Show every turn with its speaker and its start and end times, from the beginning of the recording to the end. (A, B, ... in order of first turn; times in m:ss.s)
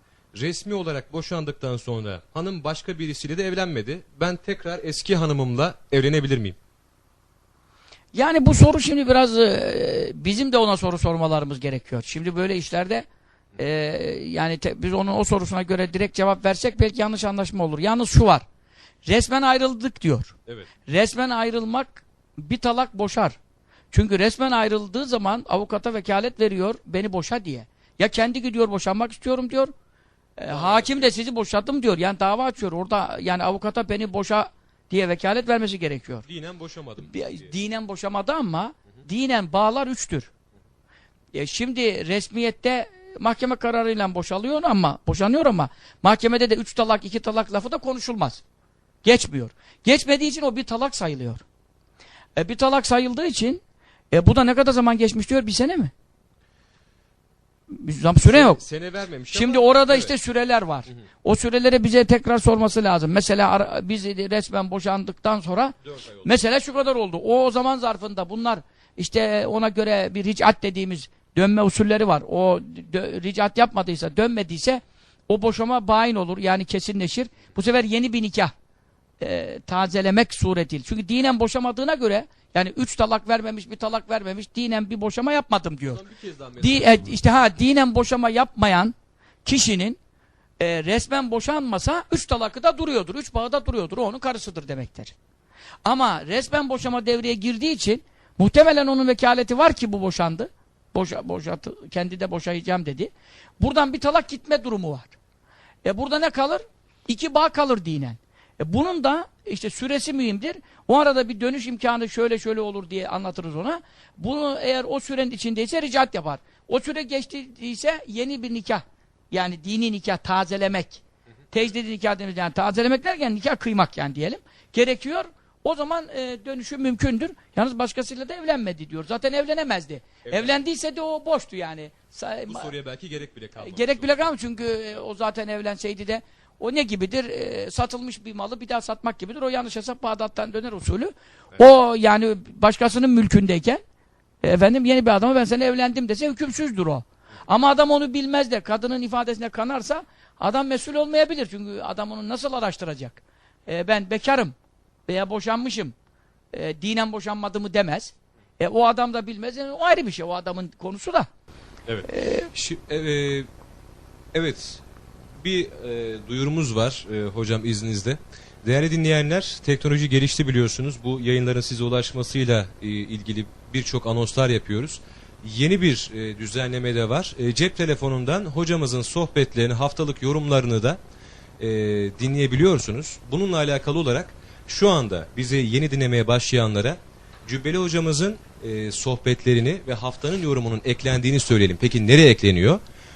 0:00.3-0:06.6 A
0:08.1-0:13.0 B
0:13.6-0:18.4 B
0:19.0-0:20.3 B
0:20.9-0:23.4 B
0:23.9-0:29.7 B
0:30.4-0:36.2 B
0:30.5-0:31.1 A
0:36.2-0:37.5 A
0:37.0-0:40.3 B
0:41.3-0:48.4 B
0:49.0-0:51.4 B
0:52.4-0:53.6 B
0:54.1-0:55.9 B
0:57.7-0:58.6 B
0:58.2-1:00.1 A
0:59.3-1:18.5 B
1:05.8-1:06.3 A
1:19.2-1:26.0 B
1:25.9-1:27.2 A
1:26.6-1:28.9 B
1:29.4-1:30.0 B
1:30.6-1:35.1 B
1:35.8-1:45.2 B
1:45.8-2:12.7 B
2:10.3-2:10.6 A
2:12.5-2:14.3 A
2:13.6-2:23.8 B
2:24.4-2:34.5 B
2:35.1-2:35.9 B
2:36.5-2:41.3 B
2:41.9-2:43.5 A
2:42.1-2:42.5 B
2:44.3-2:44.8 A
2:45.4-3:01.0 A
3:01.6-3:12.8 A